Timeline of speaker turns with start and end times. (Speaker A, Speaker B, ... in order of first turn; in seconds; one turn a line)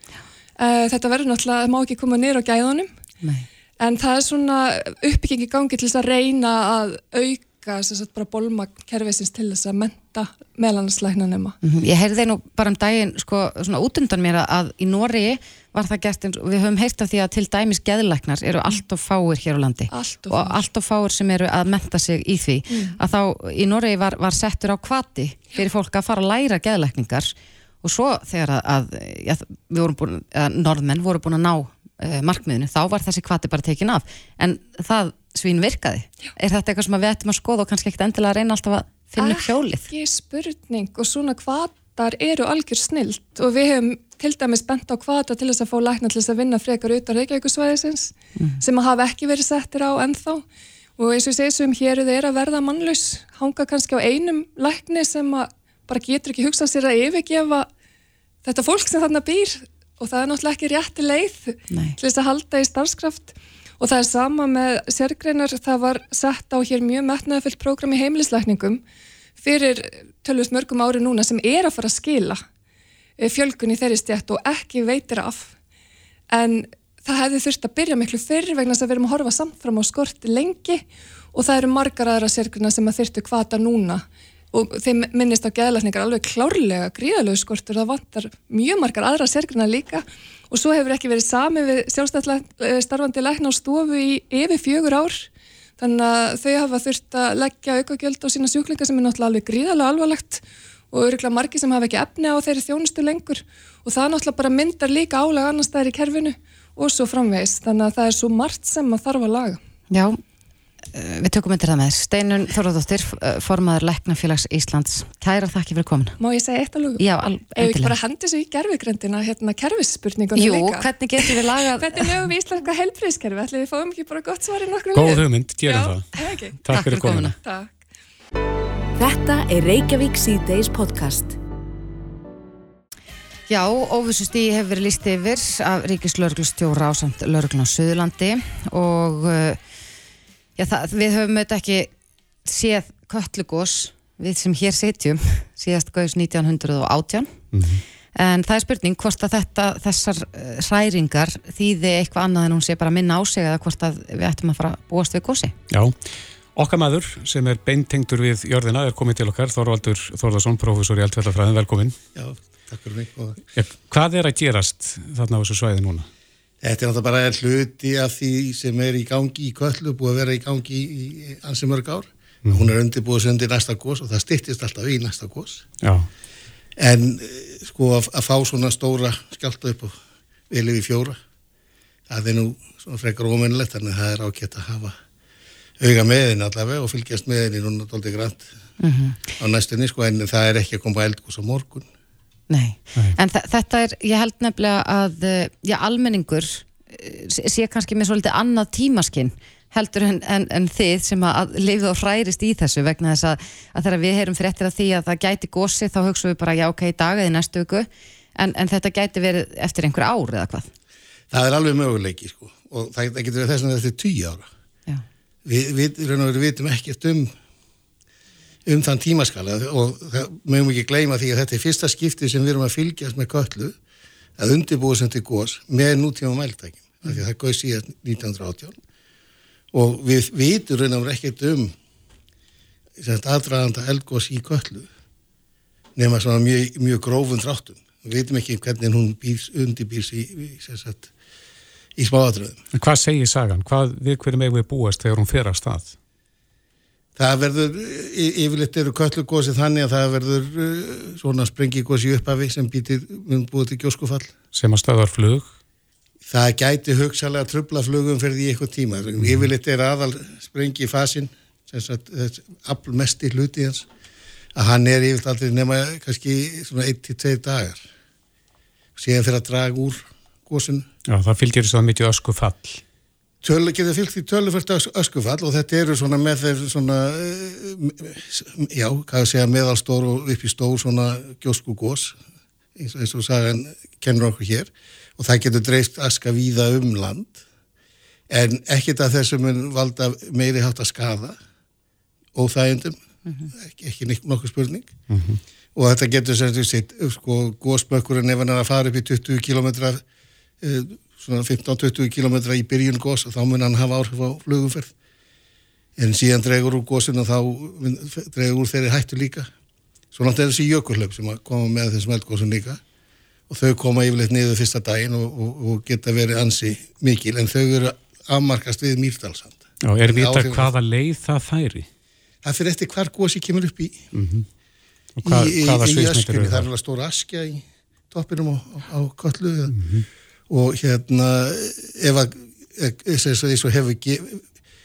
Speaker A: 0.6-2.9
Speaker A: 3.8-11.6
Speaker B: 11.6-39.9
Speaker A: 19.9-20.6
Speaker A: 22.7-23.0
Speaker A: 39.2-50.4
Speaker B: 48.4-48.6
Speaker A: 51.0-57.7
Speaker A: 58.4-68.8
Speaker B: 61.7-62.0
Speaker A: 69.4-72.4
Speaker A: 73.2-75.5
Speaker A: 76.3-95.3
Speaker A: 95.8-109.6
Speaker B: 109.9-110.2
Speaker B: 110.9-116.2
Speaker A: 116.2-117.0
Speaker B: 117.0-117.9
Speaker A: 117.5-126.8
Speaker B: 120.3-122.2
Speaker C: 124.9-127.3
Speaker B: 126.7-127.3
Speaker A: 127.4-127.7
Speaker D: 129.0-131.3
Speaker B: 133.5-139.6
Speaker B: 140.6-141.9
Speaker B: 142.4-147.4
Speaker C: 147.5-147.8
Speaker B: 148.1-155.5
Speaker C: 155.7-156.0
Speaker C: 156.5-162.0
Speaker E: 162.1-163.4
Speaker C: 163.5-166.1
Speaker E: 166.6-175.6
Speaker C: 172.4-172.7
Speaker C: 175.8-176.1
Speaker E: 176.8-179.9
Speaker E: 180.5-181.2
Speaker E: 182.1-184.9
Speaker E: 185.8-188.5
Speaker B: 188.8-189.2
Speaker E: 189.4-191.8
Speaker B: 192.5-210.7
Speaker E: 211.3-214.5
Speaker E: 215.4-217.3
Speaker E: 218.7-223.8
Speaker E: 224.4-228.7
Speaker E: 229.7-231.7
Speaker E: 233.0-234.9
Speaker E: 235.9-241.1
Speaker E: 241.9-242.6
Speaker C: 242.7-245.9
Speaker E: 247.2-254.3
Speaker C: 254.5-255.5
Speaker E: 256.3-263.9
Speaker C: 259.2-259.5
Speaker E: 264.5-267.8
Speaker E: 268.9-270.9
Speaker C: 271.1-272.8
Speaker E: 273.4-282.1
Speaker E: 282.8-287.4
Speaker E: 288.3-291.4
Speaker E: 292.3-293.0
Speaker E: 293.6-294.9
Speaker C: 295.1-295.4
Speaker E: 295.8-300.0
Speaker E: 300.6-304.9
Speaker E: 306.0-309.5
Speaker E: 310.1-312.8
Speaker E: 313.5-320.7
Speaker C: 319.8-321.9
Speaker E: 322.4-324.0
Speaker C: 324.1-324.4
Speaker C: 325.2-326.7
Speaker E: 325.2-329.8
Speaker C: 329.7-330.1
Speaker E: 330.5-334.4